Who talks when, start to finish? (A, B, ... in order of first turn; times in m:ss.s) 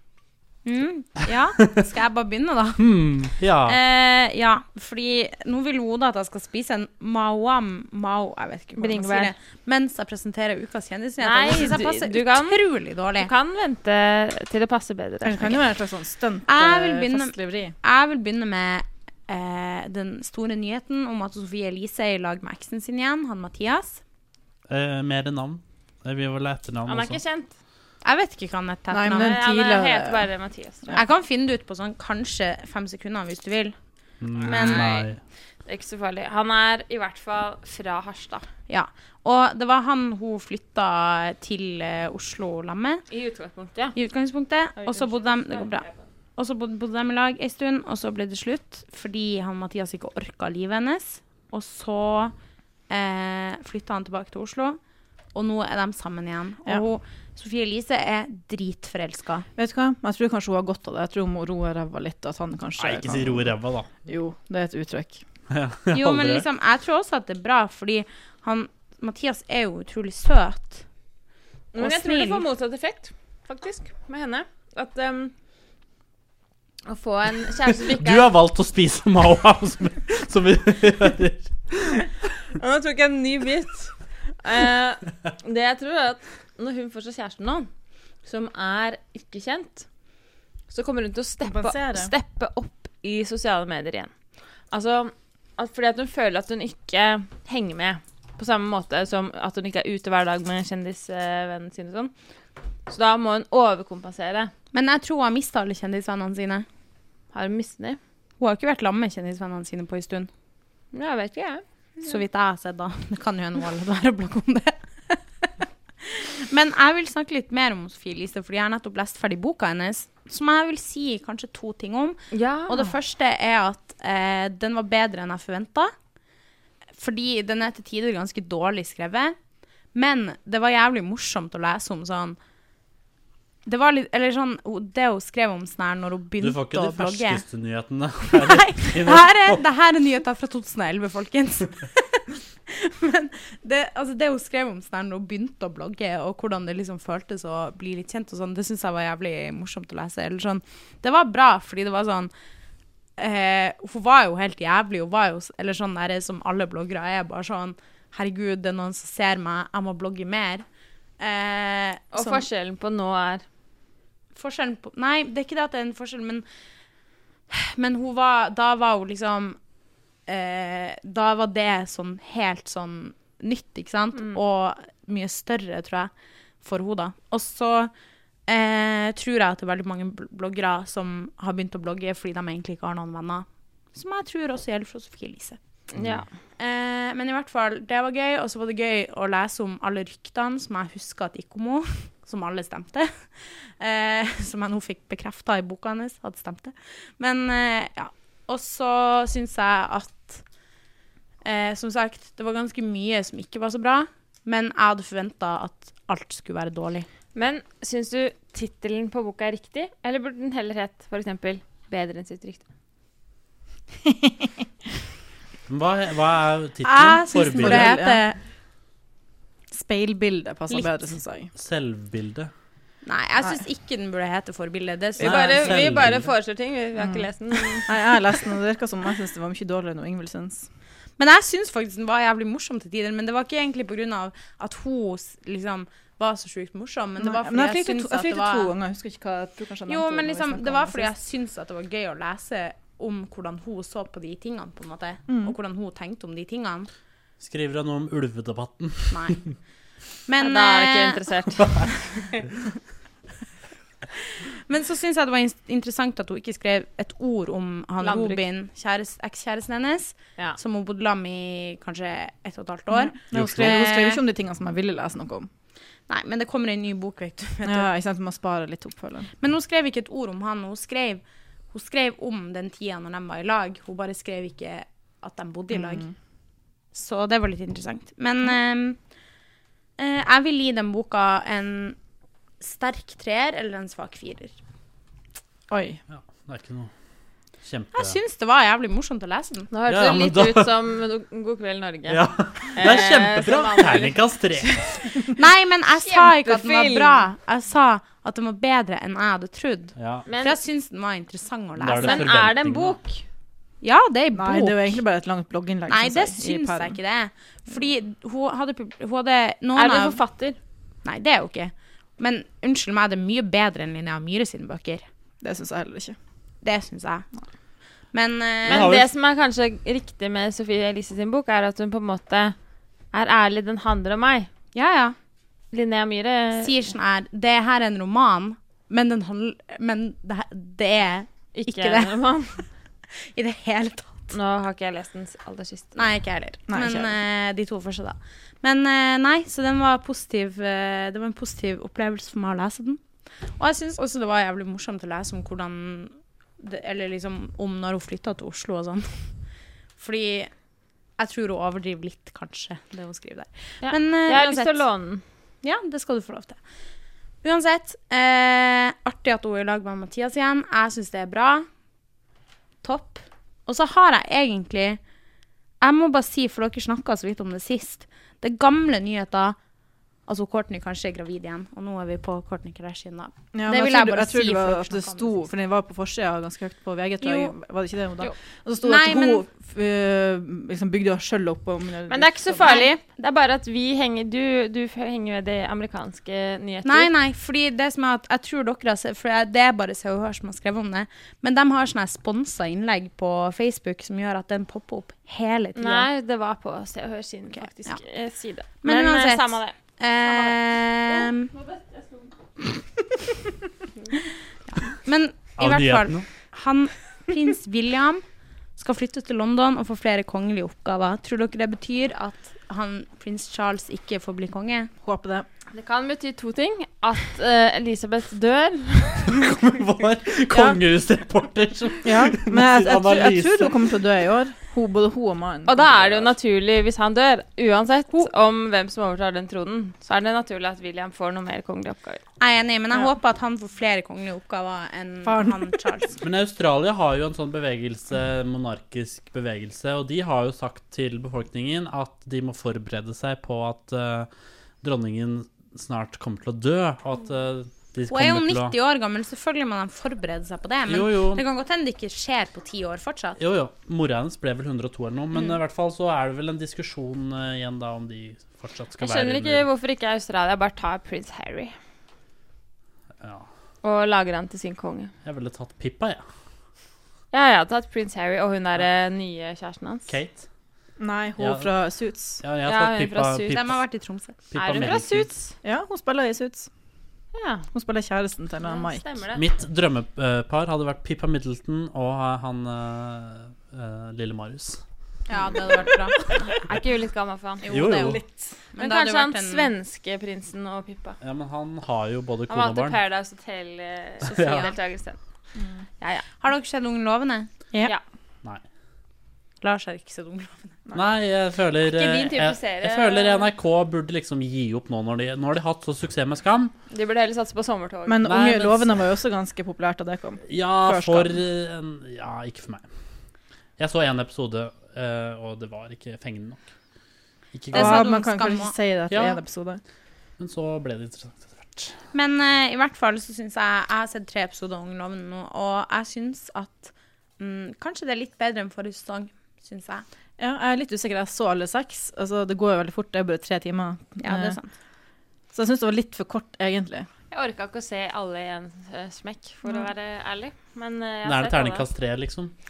0:00.6-0:02.8 A
0:02.8-0:03.8 B
0:03.6-0:13.3 A
0:08.8-0:09.3 C
0:11.2-0:12.6 C
0:13.2-0:15.6 C
0:15.2-0:17.8 D
0:16.5-0:24.0 A
0:24.7-0:27.2 B
0:26.9-0:27.5 C
0:28.0-0:29.4 A
0:28.9-0:30.3 D
0:29.1-0:31.0 C
0:30.9-0:33.8 A
0:34.2-0:35.2 B
0:34.4-0:34.9 A
0:34.4-0:35.1 C
0:35.7-0:38.5 C
0:38.7-0:43.0 A
0:43.1-0:44.0 C
0:43.9-0:52.3 A
0:44.8-0:46.0 C
0:52.9-0:54.8 A
0:55.3-0:59.5 A
0:59.6-1:03.5 D
1:02.8-1:03.9 B
1:04.1-1:05.2 D
1:05.5-1:06.5 B
1:05.9-1:10.8 A
1:11.7-1:15.3 C
1:11.8-1:12.4 A
1:16.9-1:18.3 C
1:17.7-1:22.1 B
1:22.6-1:27.7 C
1:28.2-1:29.9 C
1:30.7-1:34.1 C
1:31.4-1:32.1 D
1:34.7-1:42.1 C
1:42.9-1:44.5 C
1:44.7-1:46.7 A
1:47.3-1:48.0 C
1:48.4-1:50.3 A
1:50.9-1:51.6 C
1:52.0-1:55.2 A
1:56.0-2:05.9 A
2:02.3-2:02.9 C
2:07.0-2:09.4 A
2:09.9-2:12.4 A
2:13.7-2:17.4 A
2:16.4-2:19.6 B
2:18.3-2:32.3 A
2:33.2-2:40.7 A
2:41.2-2:42.5 A
2:42.1-2:43.4 C
2:44.4-2:46.4 A
2:47.5-2:49.6 A
2:50.3-2:57.9 A
2:58.5-3:05.6 A
3:05.9-3:06.3 C
3:06.0-3:06.2 B
3:06.6-3:20.4 A
3:21.4-3:27.1 A
3:27.4-3:32.6 C
3:34.1-3:34.5 D
3:35.7-3:38.0 B
3:36.8-3:38.4 A
3:37.4-3:38.2 D
3:39.7-3:41.5 D
3:41.6-3:42.5 B
3:43.0-3:45.9 A
3:45.2-3:48.0 C
3:45.2-3:46.3 B
3:47.0-3:47.3 D
3:47.9-3:50.6 D
3:51.2-3:58.7 A
3:57.2-4:01.1 D
3:59.9-4:06.9 A
4:05.3-4:05.6 D
4:07.4-4:09.5 B
4:09.1-4:09.4 A
4:10.3-4:11.2 A
4:10.4-4:12.4 C
4:14.4-4:24.2 A
4:18.0-4:18.4 C
4:23.0-4:25.5 D
4:23.3-4:23.9 B
4:26.1-4:27.9 A
4:27.6-4:29.3 D
4:29.4-4:36.1 A
4:35.7-4:36.1 D
4:36.9-4:39.0 A
4:40.0-4:42.0 A
4:42.6-4:44.6 A
4:45.7-4:46.0 D
4:46.1-4:46.9 B
4:47.6-4:48.2 B
4:47.9-4:49.7 A
4:49.7-4:55.3 C
4:49.9-4:50.7 B
4:52.1-4:55.2 B
4:55.4-5:02.3 A
4:56.0-4:57.2 C
5:00.0-5:00.3 B
5:00.3-5:00.6 C
5:01.8-5:03.0 B
5:02.0-5:03.2 C
5:03.8-5:05.0 A
5:04.4-5:07.0 D
5:05.9-5:10.2 A
5:09.8-5:10.6 C
5:11.0-5:15.0 A
5:15.4-5:16.2 D
5:16.6-5:17.3 A
5:18.1-5:19.0 A
5:18.7-5:22.6 C
5:18.7-5:19.1 B
5:23.1-5:24.5 C
5:24.8-5:25.2 A
5:25.7-5:26.7 C
5:26.6-5:32.2 A
5:31.6-5:32.6 C
5:33.2-5:34.3 A
5:34.3-5:36.0 C
5:36.0-5:43.0 A
5:36.7-5:37.1 D
5:43.6-5:49.3 A
5:50.0-5:50.5 A
5:51.2-5:54.8 A
5:53.8-5:55.2 C
5:55.6-5:56.6 A
5:57.4-6:01.7 A
6:02.8-6:05.0 A
6:05.8-6:09.6 A
6:10.3-6:15.5 A
6:13.5-6:22.8 D
6:17.2-6:17.5 A
6:18.8-6:19.4 A
6:22.1-6:27.1 C
6:22.6-6:23.0 A
6:26.8-6:36.1 A
6:35.8-6:40.6 C
6:38.8-6:41.5 A
6:41.2-6:42.2 C
6:44.7-6:48.2 A
6:45.6-6:46.3 B
6:48.8-6:54.9 A
6:55.0-6:55.5 D
6:55.7-6:59.5 C
6:59.3-7:03.9 B
7:02.0-7:05.8 D
7:05.7-7:12.2 C
7:05.9-7:06.3 B
7:12.4-7:16.2 A
7:15.2-7:15.7 D
7:16.2-7:24.3 B
7:24.8-7:28.8 B
7:28.1-7:33.4 A
7:30.9-7:31.4 B
7:33.4-7:39.7 B
7:39.0-7:41.7 C
7:43.2-7:43.5 B
7:43.8-7:45.1 C
7:45.2-7:46.2 B
7:47.3-7:50.1 C
7:50.1-7:50.4 B
7:51.0-7:52.4 D
7:51.4-7:51.7 B
7:52.4-7:53.8 B
7:52.6-7:53.6 C
7:53.5-7:54.4 A
7:54.5-7:55.3 B
7:54.5-7:55.6 C
7:55.6-7:56.7 D
7:57.3-7:57.7 C
7:57.7-7:59.0 D
7:58.6-7:59.4 C
7:59.4-8:04.8 B
8:05.3-8:06.2 A
8:06.4-8:08.0 C
8:07.6-8:09.7 A
8:07.7-8:08.2 B
8:08.8-8:11.2 C
8:11.2-8:13.0 B
8:12.5-8:15.2 C
8:14.2-8:14.7 A
8:14.3-8:14.7 B
8:16.0-8:16.3 C
8:16.4-8:17.5 A
8:19.6-8:20.7 A
8:20.9-8:26.7 B
8:21.8-8:23.5 C
8:26.9-8:28.3 C
8:28.1-8:31.3 D
8:28.2-8:29.1 B
8:30.5-8:32.9 B
8:33.8-8:36.6 B
8:37.5-8:38.1 B
8:37.7-8:38.8 A
8:37.7-8:39.8 D
8:39.1-8:39.4 B
8:40.4-8:42.0 B
8:42.1-8:50.0 A
8:50.4-8:54.6 D
8:54.2-8:54.7 A
8:55.5-8:57.1 D
8:57.3-9:01.9 C
9:01.2-9:02.5 B